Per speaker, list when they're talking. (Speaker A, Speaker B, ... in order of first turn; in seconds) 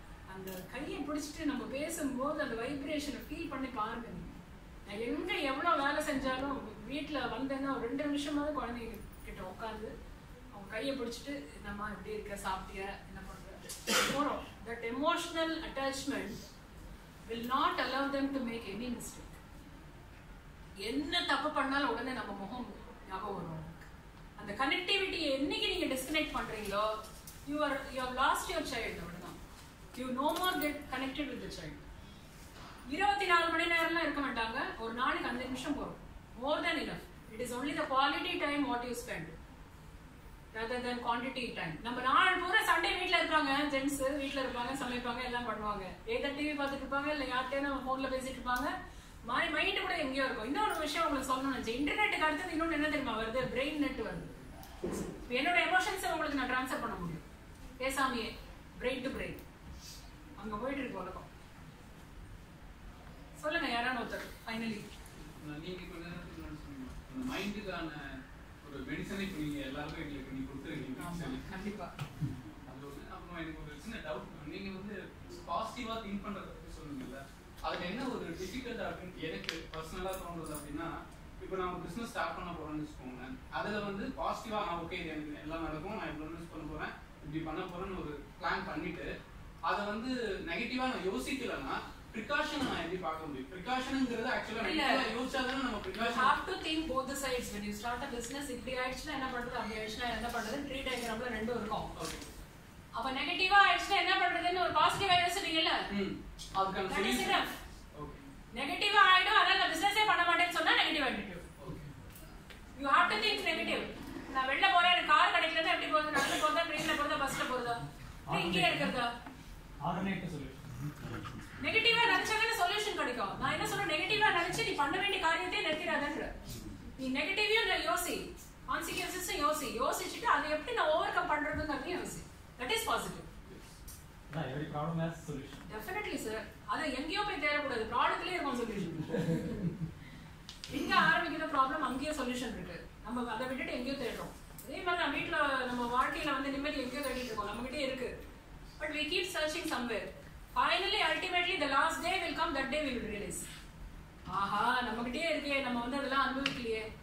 Speaker A: 0.3-9.9, 10.5-16.4, 17.3-19.4, 20.8-23.9, 24.4-26.9, 27.4-29.4, 29.9-31.8, 32.9-39.3, 40.5-48.7, 49.2-54.3, 55.3-57.2, 57.8-59.4, 60.4-61.3, 63.4-64.8, 71.0-71.9, 94.6-95.1, 96.0-101.9, 103.0-105.8, 106.8-107.5, 108.5-111.4, 112.8-119.1, 121.6-126.3, 127.0-133.3, 135.7-139.5, 140.7-148.1, 148.8-153.5, 154.3-156.8
Speaker B: 65.2-68.0, 68.6-71.4, 72.7-89.1, 89.7-96.3, 102.0-102.2, 105.9-107.4, 108.0-108.2, 111.6-111.9
Speaker C: 118.3-118.9, 119.8-121.4, 134.3-135.6